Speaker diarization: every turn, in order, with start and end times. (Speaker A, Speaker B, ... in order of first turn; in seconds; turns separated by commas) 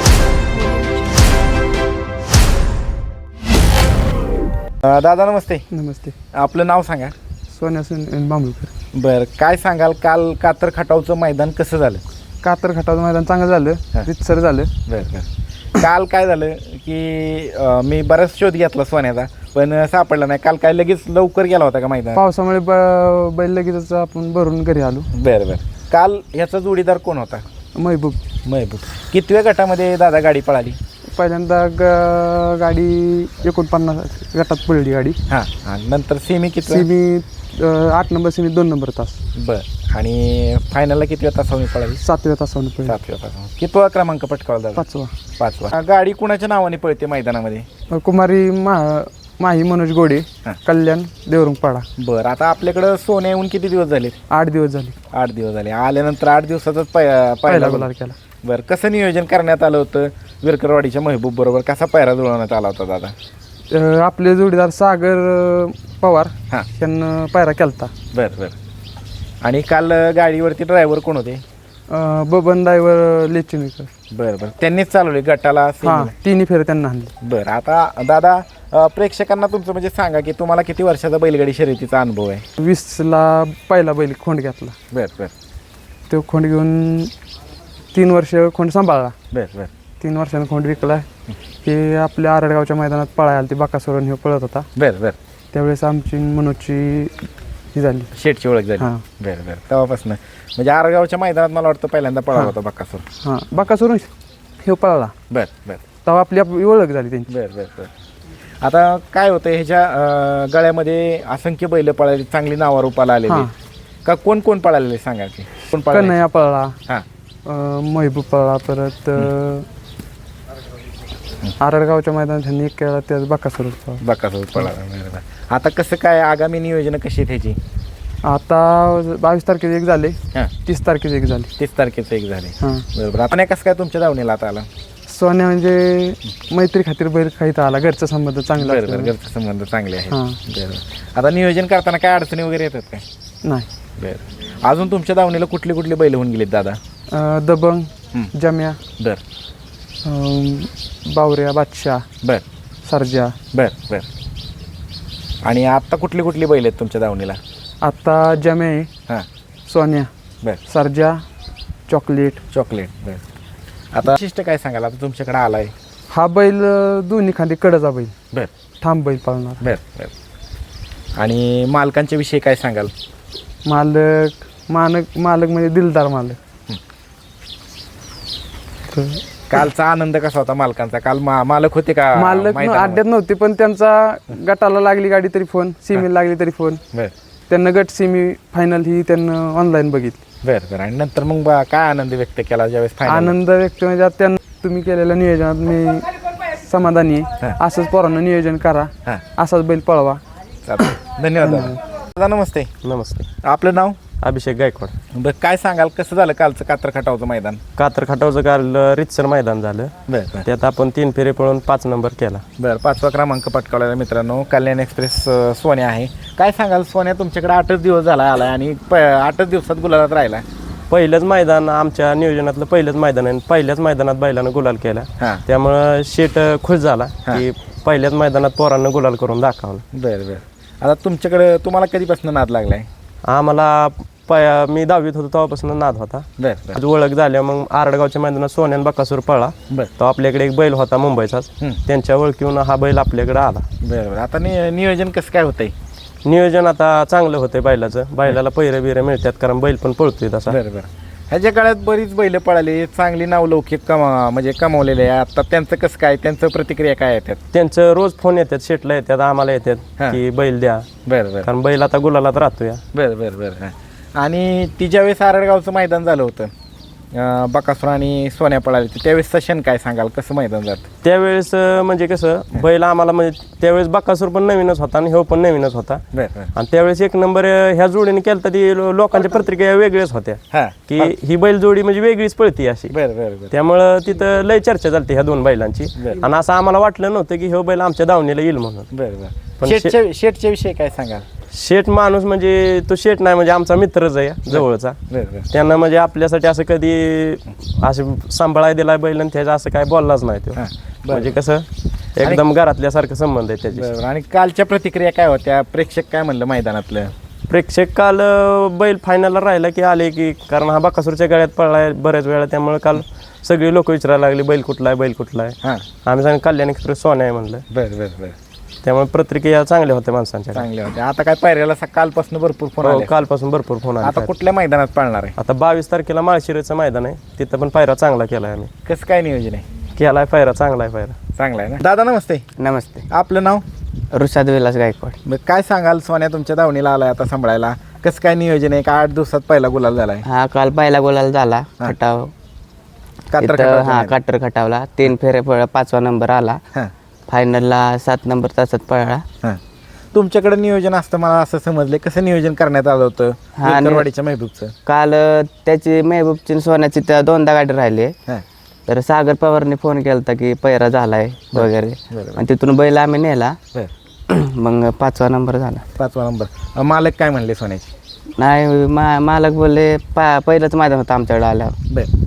Speaker A: 4.8-5.7, Speaker B: 5.7-6.1, Speaker A: 6.3-7.1, Speaker B: 7.5-8.7, Speaker A: 8.9-12.0, Speaker B: 12.4-14.7, Speaker A: 14.8-22.2, Speaker B: 22.1-25.1, Speaker A: 25.1-27.4, Speaker B: 27.7-28.2, Speaker A: 28.4-30.8, Speaker B: 31.1-35.2, Speaker A: 35.3-36.9, Speaker B: 36.6-39.2, Speaker A: 39.3-42.0, Speaker B: 42.0-43.0, Speaker A: 42.8-44.8, Speaker B: 44.8-45.1, Speaker A: 45.4-47.6, Speaker B: 47.9-51.9, Speaker A: 52.0-54.2, Speaker B: 54.3-55.0, Speaker A: 55.1-57.9, Speaker B: 57.5-58.1, Speaker A: 58.4-63.1, Speaker B: 63.7-67.9, Speaker A: 68.1-68.5, Speaker A: 69.4-71.4, Speaker B: 71.9-73.9, Speaker A: 74.1-76.1, Speaker B: 75.8-77.1, Speaker A: 77.2-82.5, Speaker B: 82.6-84.8, Speaker A: 84.9-85.3, Speaker B: 86.1-87.1, Speaker B: 87.9-89.2, Speaker A: 89.3-89.7, Speaker B: 90.0-91.1, Speaker B: 91.6-94.7, Speaker A: 94.8-95.2, Speaker B: 95.5-98.1, Speaker A: 98.1-103.0, Speaker B: 103.2-104.1, Speaker B: 104.6-105.1, Speaker A: 105.3-105.8, Speaker B: 106.0-107.3, Speaker A: 107.3-107.9, Speaker A: 108.6-113.5, Speaker B: 113.3-113.5, Speaker A: 114.0-116.2, Speaker B: 115.9-116.8, Speaker B: 117.4-119.7, Speaker B: 121.6-124.0, Speaker A: 124.0-127.6, Speaker B: 128.2-131.5, Speaker A: 131.6-134.7, Speaker B: 132.6-132.8, Speaker B: 135.1-139.1, Speaker A: 138.5-143.0, Speaker B: 140.1-140.4, Speaker A: 144.0-146.8, Speaker B: 147.1-148.8, Speaker B: 150.0-152.1, Speaker B: 152.8-153.4, Speaker A: 153.5-154.1, Speaker A: 155.4-157.4, Speaker B: 157.8-158.9, Speaker B: 159.7-160.1, Speaker B: 160.7-161.2, Speaker B: 161.9-162.4, Speaker A: 162.5-163.2, Speaker A: 163.9-165.7, Speaker B: 166.1-168.1, Speaker B: 168.8-169.6, Speaker A: 169.6-170.1, Speaker A: 171.2-172.9, Speaker B: 173.6-176.4, Speaker B: 178.9-179.2, Speaker A: 179.5-183.0, Speaker B: 182.1-186.8, Speaker B: 187.5-190.2, Speaker A: 190.4-193.3, Speaker B: 193.0-200.2, Speaker A: 200.6-202.7, Speaker B: 201.4-201.8, Speaker C: 202.8-203.3, Speaker A: 203.4-204.0, Speaker C: 204.2-204.9, Speaker A: 205.1-207.6, Speaker C: 207.8-209.9, Speaker A: 210.1-210.5, Speaker C: 210.4-212.4, Speaker A: 212.6-220.4, Speaker C: 220.9-229.8, Speaker A: 229.9-232.9, Speaker C: 233.3-243.7, Speaker A: 236.4-236.8, Speaker A: 243.8-245.7, Speaker C: 246.2-250.6, Speaker A: 250.5-257.4, Speaker C: 257.5-260.9, Speaker A: 261.1-261.5, Speaker C: 261.4-262.8, Speaker A: 262.9-266.5, Speaker A: 267.1-270.9, Speaker C: 271.0-276.0, Speaker A: 276.1-276.5, Speaker C: 276.5-282.9, Speaker A: 280.5-281.1, Speaker A: 282.9-283.5, Speaker C: 283.5-288.9, Speaker A: 288.9-291.2, Speaker C: 289.6-289.9, Speaker C: 291.5-295.0, Speaker A: 294.5-295.5, Speaker C: 295.5-303.9, Speaker A: 300.6-301.4, Speaker A: 303.7-307.1, Speaker C: 307.5-317.6, Speaker A: 317.7-318.4, Speaker C: 318.8-320.6, Speaker A: 320.5-323.1, Speaker C: 322.8-324.3, Speaker A: 324.0-325.4, Speaker C: 325.4-328.7, Speaker A: 328.9-329.6, Speaker C: 329.9-331.1, Speaker A: 331.4-332.5, Speaker D: 332.6-333.0, Speaker A: 333.1-333.6, Speaker D: 334.1-335.2, Speaker A: 335.2-340.2, Speaker D: 340.2-342.3, Speaker A: 343.3-344.2, Speaker D: 343.4-346.6, Speaker D: 347.3-349.2, Speaker A: 350.1-354.8, Speaker D: 353.6-354.1, Speaker D: 354.9-358.1, Speaker D: 358.9-363.6, Speaker A: 361.5-362.4, Speaker D: 364.3-365.8, Speaker A: 365.9-367.9, Speaker D: 368.4-371.8